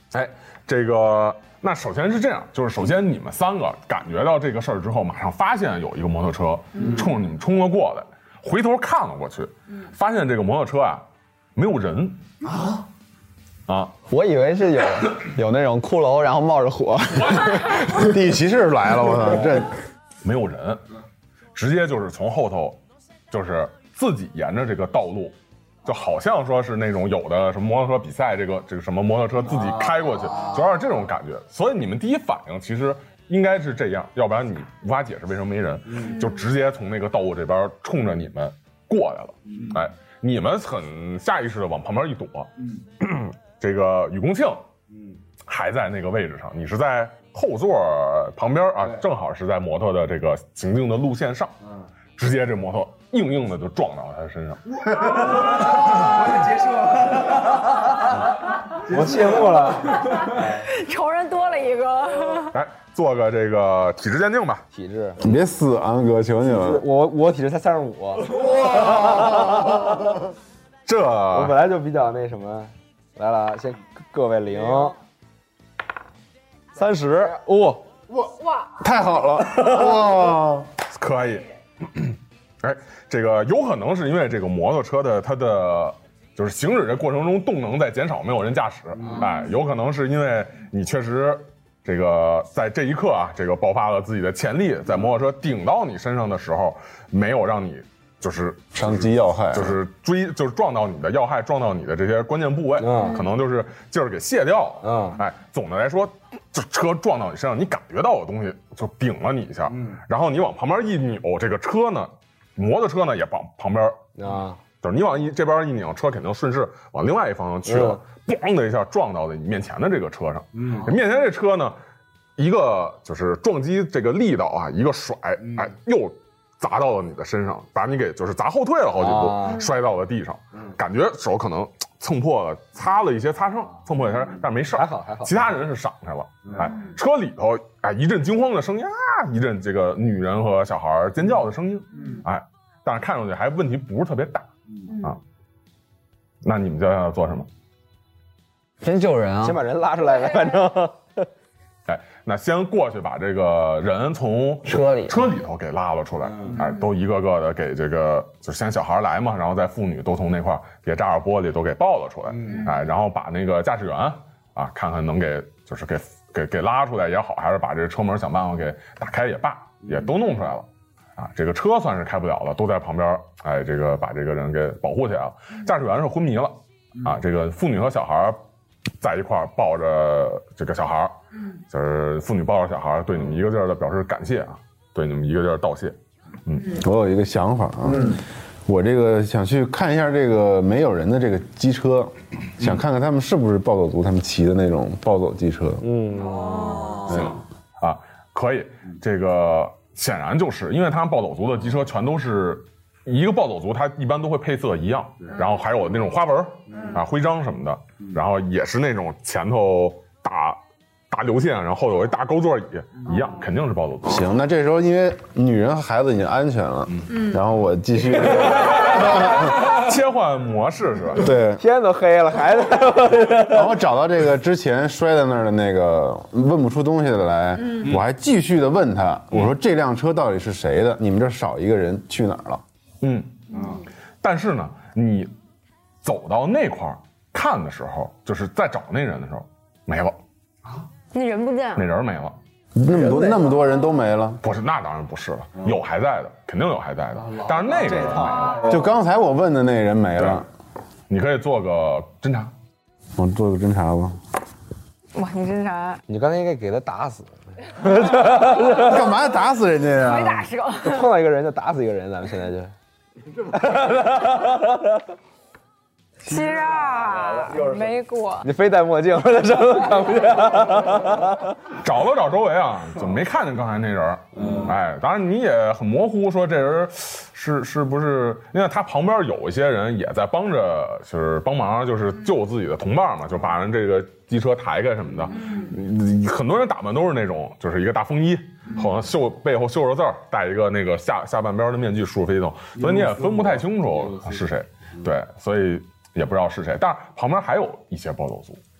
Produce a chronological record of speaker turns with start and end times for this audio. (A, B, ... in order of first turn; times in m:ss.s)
0:00.1-0:11.0 A
0:11.5-0:12.2 A
0:13.7-0:13.9 A
0:14.1-0:18.0 B
0:17.9-0:19.8 C
0:20.2-0:20.8 A
0:21.5-0:22.8 A
0:23.3-0:44.6 A
0:45.5-0:51.6 A
0:52.2-0:55.0 A
0:56.3-0:57.4 D
0:58.8-1:00.0 D
1:00.0-1:02.5 E
1:02.5-1:04.6 A
1:04.7-1:05.2 D
1:05.2-1:06.8 C
1:06.5-1:10.2 D
1:10.8-1:11.6 A
1:11.3-1:15.0 D
1:16.7-1:17.9 D
1:18.1-1:20.7 C
1:20.9-1:54.0 A
1:38.7-1:39.8 C
1:42.8-1:43.2 D
1:44.8-1:45.2 D
1:54.2-1:54.6 D
1:54.8-2:01.8 A
1:57.7-1:58.0 D
2:02.4-2:25.2 A
2:09.0-2:09.6 D
2:14.7-2:15.5 D
2:26.4-2:27.5 A
2:28.8-2:29.6 B
2:29.4-2:31.3 D
2:31.8-2:58.4 A
2:34.6-2:35.2 B
2:59.0-3:06.7 A
3:06.7-3:15.8 C
3:15.8-3:17.0 D
3:16.3-3:17.1 E
3:17.1-3:17.4 C
3:17.1-3:30.6 A
3:31.1-3:34.3 A
3:34.0-3:39.6 C
3:39.1-3:41.3 A
3:41.2-3:41.6 C
3:41.6-3:43.7 D
3:43.5-3:52.6 C
3:53.0-3:55.3 A
3:56.0-4:00.2 A
4:01.1-4:01.8 E
4:01.8-4:02.4 A
4:02.7-4:04.4 C
4:02.9-4:03.5 D
4:04.4-4:08.7 A
4:07.8-4:08.8 D
4:08.6-4:10.4 C
4:11.1-4:12.5 A
4:13.2-4:14.2 C
4:15.1-4:16.0 E
4:16.1-4:19.1 D
4:18.8-4:20.4 C
4:20.0-4:21.1 E
4:20.8-4:22.7 D
4:23.4-4:25.0 D
4:26.2-4:28.5 E
4:28.4-4:31.5 D
4:31.8-4:58.6 A